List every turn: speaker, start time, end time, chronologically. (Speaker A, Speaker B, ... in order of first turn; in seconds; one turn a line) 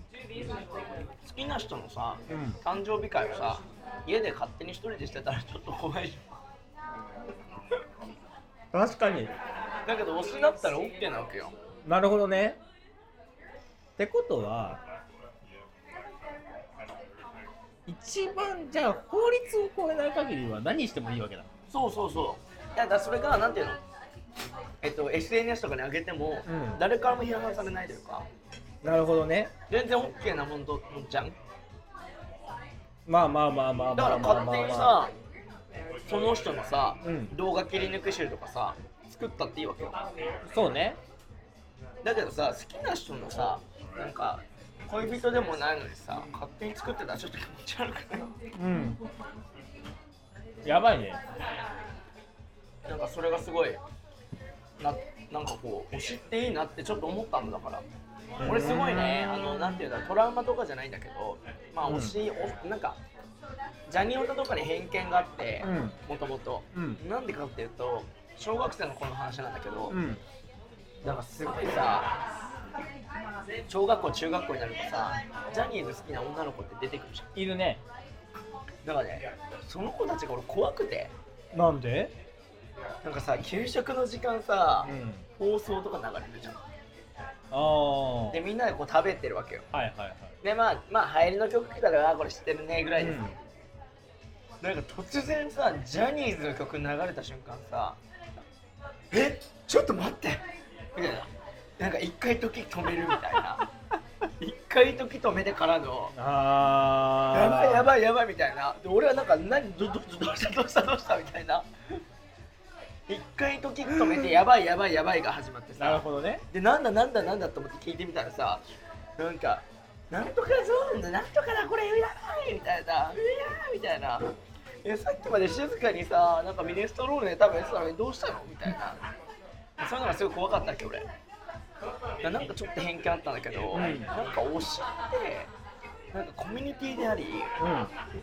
Speaker A: 1.2-6.3
Speaker B: 2.3-2.6
Speaker B: 8.7-9.3
Speaker A: 9.8-11.5
Speaker B: 11.8-12.6
Speaker B: 14.0-14.8
Speaker B: 17.9-21.5
Speaker A: 21.7-23.8
Speaker A: 24.8-28.3
Speaker B: 26.4-26.8
Speaker B: 28.8-29.5
Speaker A: 29.7-31.4
Speaker B: 33.1-34.9
Speaker A: 33.9-35.1
Speaker A: 36.1-40.0
Speaker B: 37.0-37.3
Speaker B: 40.5-41.0
Speaker A: 42.0-48.3
Speaker B: 48.5-49.0
Speaker B: 50.6-51.2
Speaker A: 52.9-53.8
Speaker A: 54.8-57.8
Speaker B: 58.4-59.6
Speaker A: 58.4-63.0
Speaker B: 61.9-62.2
Speaker A: 63.9-70.0
Speaker B: 65.6-66.0
Speaker B: 66.7-67.0
Speaker B: 69.9-70.2
Speaker A: 71.0-72.1
Speaker A: 73.7-77.3
Speaker B: 77.3-77.8
Speaker A: 78.8-81.1
Speaker B: 81.5-82.1
Speaker A: 83.0-86.6
Speaker B: 84.8-85.2
Speaker B: 87.5-88.4
Speaker A: 88.3-89.6
Speaker B: 89.7-90.3
Speaker A: 90.4-93.2
Speaker B: 93.0-93.3
Speaker A: 94.6-98.0
Speaker A: 99.1-100.4
Speaker A: 100.9-103.6
Speaker A: 104.4-106.1
Speaker B: 106.1-107.9
Speaker A: 107.3-111.7
Speaker A: 113.1-118.6
Speaker B: 115.8-116.4
Speaker A: 119.2-124.3
Speaker A: 124.8-129.0
Speaker A: 129.8-131.1
Speaker A: 132.2-135.5
Speaker B: 133.7-134.1
Speaker A: 136.1-137.5
Speaker B: 137.6-137.9